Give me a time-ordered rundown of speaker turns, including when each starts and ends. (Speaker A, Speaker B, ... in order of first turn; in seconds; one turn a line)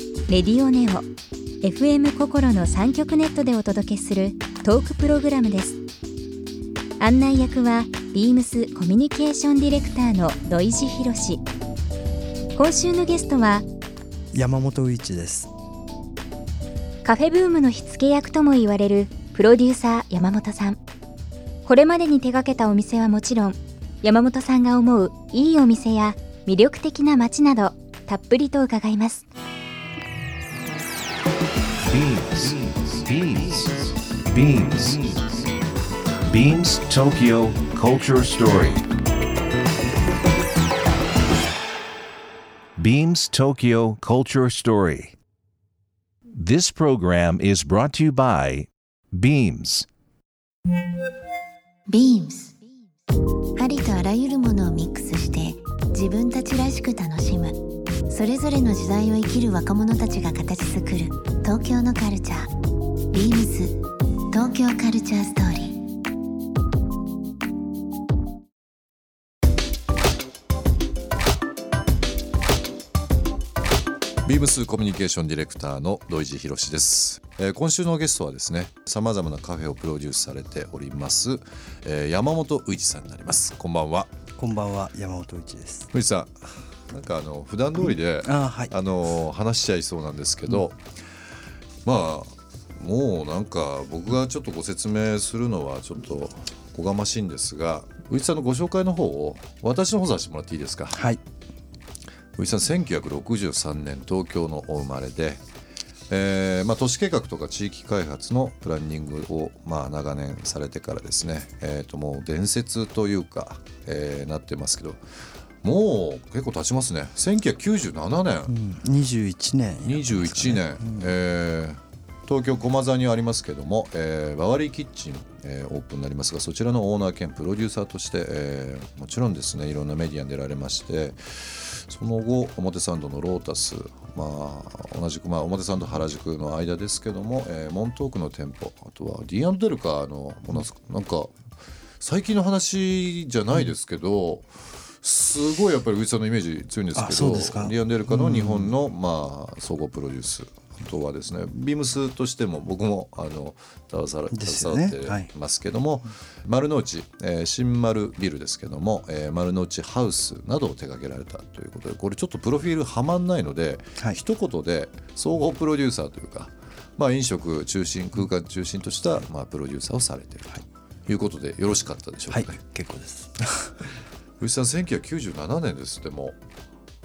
Speaker A: 0.3-1.1
Speaker A: 1.6-5.8
Speaker A: 7.0-11.4
Speaker A: 12.6-13.7
Speaker B: 14.3-15.5
Speaker A: 17.0-20.8
Speaker A: 21.6-29.2
Speaker C: 31.9-35.5
Speaker C: 36.3-38.9
Speaker C: 42.8-45.1
Speaker C: 46.4-49.9
Speaker D: 51.9-52.5
Speaker D: 53.6-57.6
Speaker D: 58.1-62.5
Speaker D: 63.1-63.8
Speaker D: 64.3-65.8
Speaker E: 74.2-84.1
Speaker B: 84.4-85.9
Speaker E: 85.9-90.8
Speaker B: 88.2-88.7
Speaker E: 91.8-101.0
Speaker B: 100.9-101.2
Speaker E: 102.4-105.4
Speaker E: 106.1-115.0
Speaker E: 115.6-118.5
Speaker B: 118.5-121.1
Speaker E: 119.8-141.3
Speaker E: 142.0-172.6
Speaker B: 146.9-148.7
Speaker B: 154.3-155.3
Speaker B: 172.3-173.9
Speaker E: 174.4-176.4